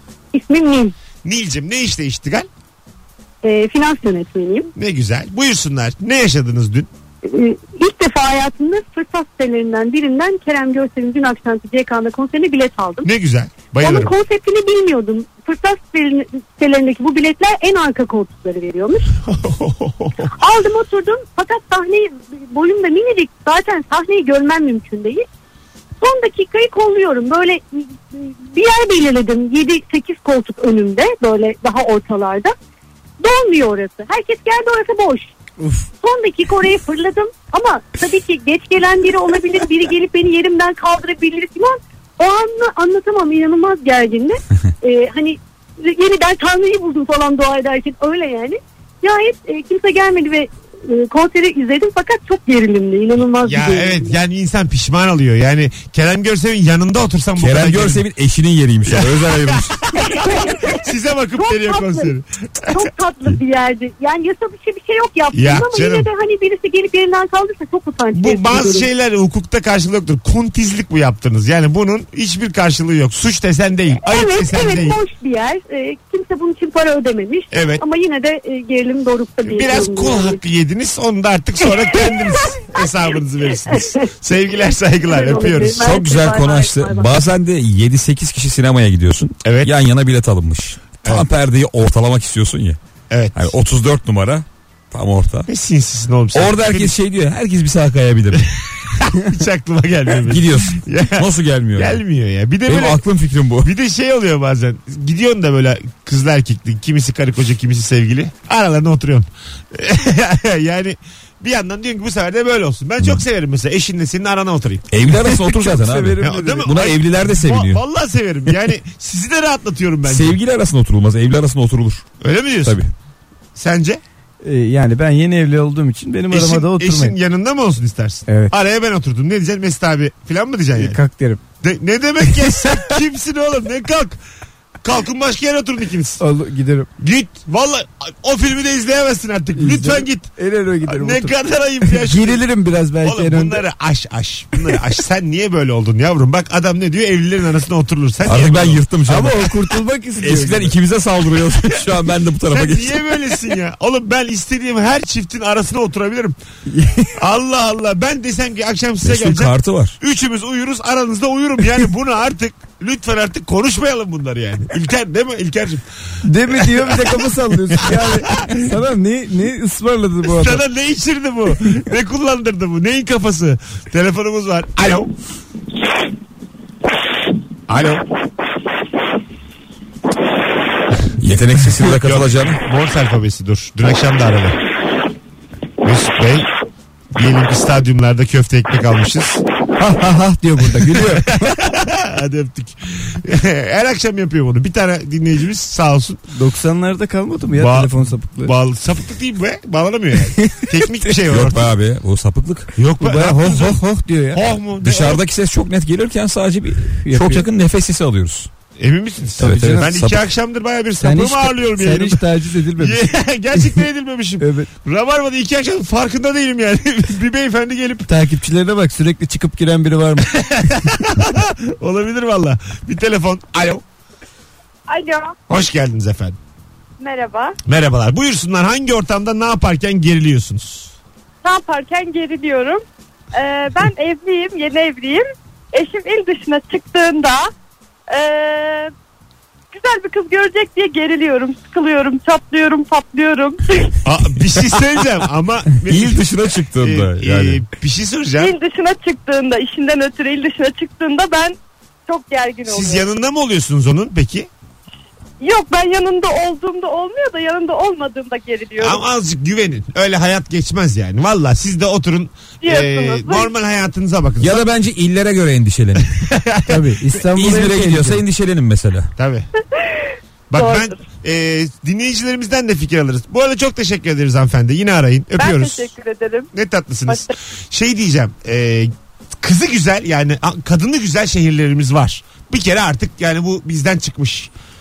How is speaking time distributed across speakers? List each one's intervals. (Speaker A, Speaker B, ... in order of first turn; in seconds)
Speaker A: 0.3-0.9, 3.4-4.7, 7.2-13.1, 13.8-19.0, 20.4-25.2, 26.0-32.5, 33.2-35.3, 36.0-54.1, 60.0-60.9, 61.4-62.1, 62.6-68.9, 74.0-80.4, 82.0-82.8, 83.7-84.0, 85.0-87.1
Speaker B: 1.2-2.5, 4.8-6.9, 13.0-14.1, 19.2-20.3, 53.4-58.0, 58.9-62.8, 65.3-66.1, 68.1-75.0, 77.5-77.8, 79.4-85.9, 89.4-89.7, 93.1-93.5, 95.5-96.9, 99.0-103.0, 103.6-114.9, 116.2-120.4, 122.2-122.8, 123.5-124.0, 126.3-131.0, 131.6-134.2, 134.8-136.2, 137.0-140.3, 140.8-142.4, 143.0-148.8, 152.5-156.3, 157.2-165.8, 166.5-167.2, 167.8-168.6, 170.2-175.1, 177.7-178.0, 181.9-184.6, 185.8-186.5, 187.1-189.4, 190.8-196.2, 197.5-201.7, 202.8-203.8, 204.3-205.2, 208.8-212.2, 212.8-218.1, 220.3-223.8, 225.5-226.4, 227.7-230.9, 244.0-248.5, 252.7-254.5, 258.8-264.6, 266.1-266.8, 269.2-269.5, 270.5-275.9, 276.5-284.5
Speaker C: 35.6-35.9, 115.1-116.7, 124.4-127.2, 128.3-128.5, 130.7-131.4, 136.2-136.9, 139.5-141.3, 141.9-143.6, 149.1-150.8, 156.7-157.1, 166.2-170.6, 189.8-191.6, 196.3-198.5, 200.4-200.7, 203.0-204.4, 206.9-207.5, 209.4-209.9, 211.0-213.0, 214.4-214.7, 218.1-220.3, 266.7-268.2
Speaker D: 57.4-59.8, 85.7-92.8, 93.3-95.5, 96.3-98.5, 100.2-102.0, 102.7-103.7, 114.9-117.8, 120.0-122.0, 122.6-122.9, 148.2-153.0, 159.0-160.0, 181.2-182.6, 201.3-202.7, 204.8-208.5, 209.4-210.2, 245.8-247.6, 264.4-266.1, 267.2-269.1
Speaker E: 224.9-225.3, 227.0-227.6, 231.4-237.5, 238.1-238.9, 239.7-244.0, 248.4-251.6, 252.1-253.0, 255.4-259.0, 262.6-263.5, 269.8-270.9, 275.4-276.5, 277.1-277.3